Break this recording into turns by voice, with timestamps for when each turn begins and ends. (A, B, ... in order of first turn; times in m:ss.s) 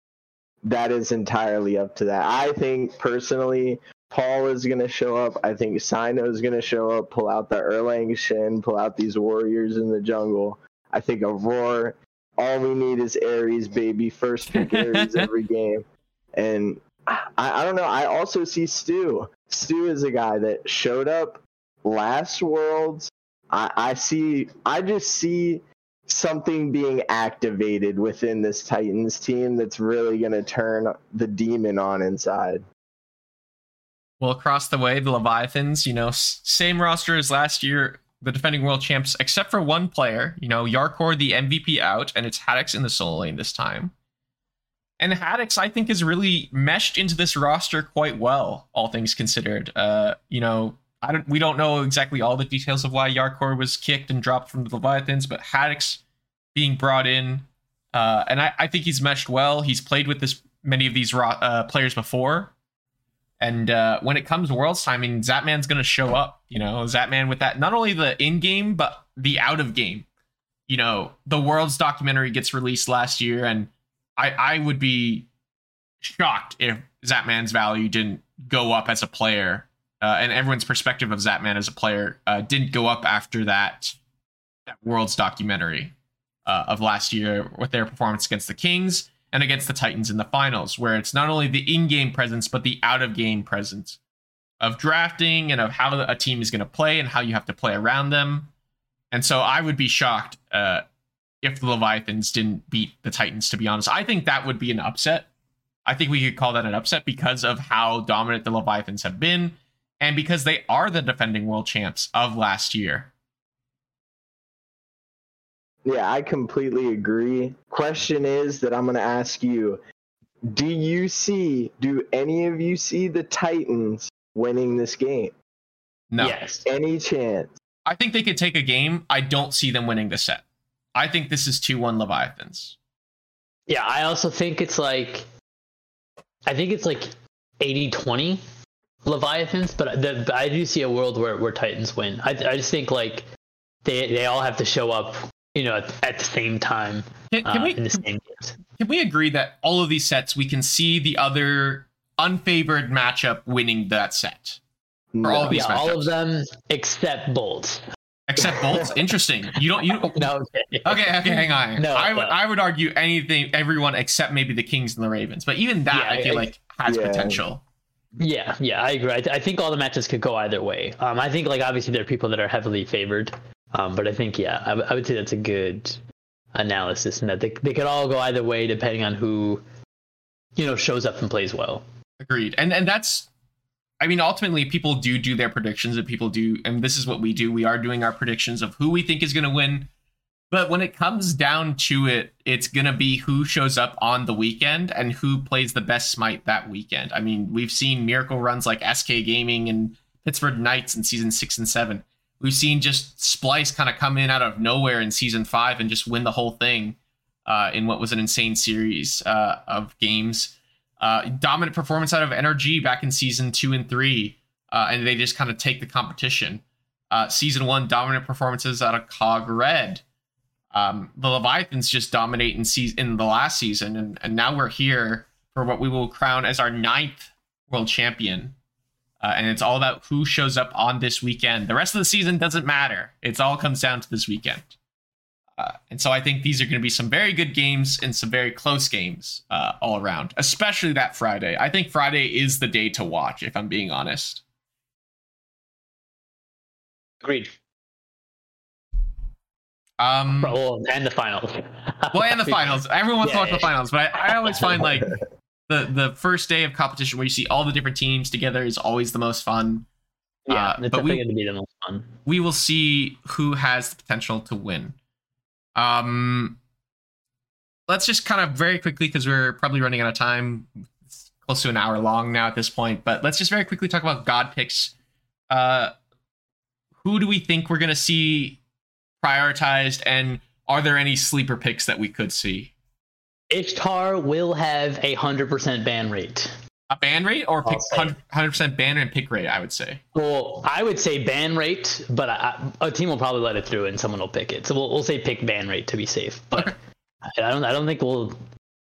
0:00.6-0:15.8 A
0:14.5-0:15.3 B
0:16.3-0:32.6 A
0:34.2-0:43.9 B
0:45.0-0:56.0 B
0:56.5-1:02.5 B
1:03.4-1:10.0 B
1:10.7-1:15.3 B
1:16.0-1:24.0 B
1:24.7-1:25.9 B
1:26.4-1:34.0 B
1:34.6-1:38.5 B
1:39.1-1:40.8 B
1:41.4-1:45.3 B
1:45.8-1:53.1 B
1:55.8-1:59.8 A
2:00.5-2:05.3 A
2:06.1-2:06.4 B
2:06.2-2:06.6 C
2:06.6-2:07.5 A
2:07.8-2:12.8 B
2:13.7-2:15.3 C
2:16.5-2:18.4 C
2:19.0-2:23.3 C
2:23.8-2:28.6 C
2:27.3-2:28.0 B
2:28.8-2:34.6 B
2:35.1-2:35.7 A
2:35.2-2:36.1 B
2:35.4-2:37.8 C
2:38.3-2:40.3 B
2:39.8-2:42.4 C
2:40.8-2:47.6 B
2:45.9-2:46.5 C
2:46.8-2:47.4 A
2:48.2-2:56.0 C
2:56.5-2:59.6 C
3:00.6-3:01.8 C
3:02.2-3:03.3 B
3:04.0-3:09.9 B
3:10.5-3:40.0 B
3:40.7-3:48.5 B
3:49.2-3:54.7 B
3:55.6-4:04.4 B
4:07.2-4:07.5 C
4:10.0-4:10.6 B
4:10.4-4:14.9 C
4:12.1-4:15.1 B
4:15.7-4:19.8 B
4:20.5-4:22.2 C
4:20.5-4:21.2 B
4:22.2-4:25.0 B
4:25.8-4:26.6 B
4:27.9-4:34.9 B
4:35.5-4:35.9 B
4:37.0-4:38.6 B
4:39.2-4:42.7 B
4:43.5-4:46.5 C
4:46.9-4:50.0 B
4:47.6-4:48.2 C
4:50.1-4:58.4 C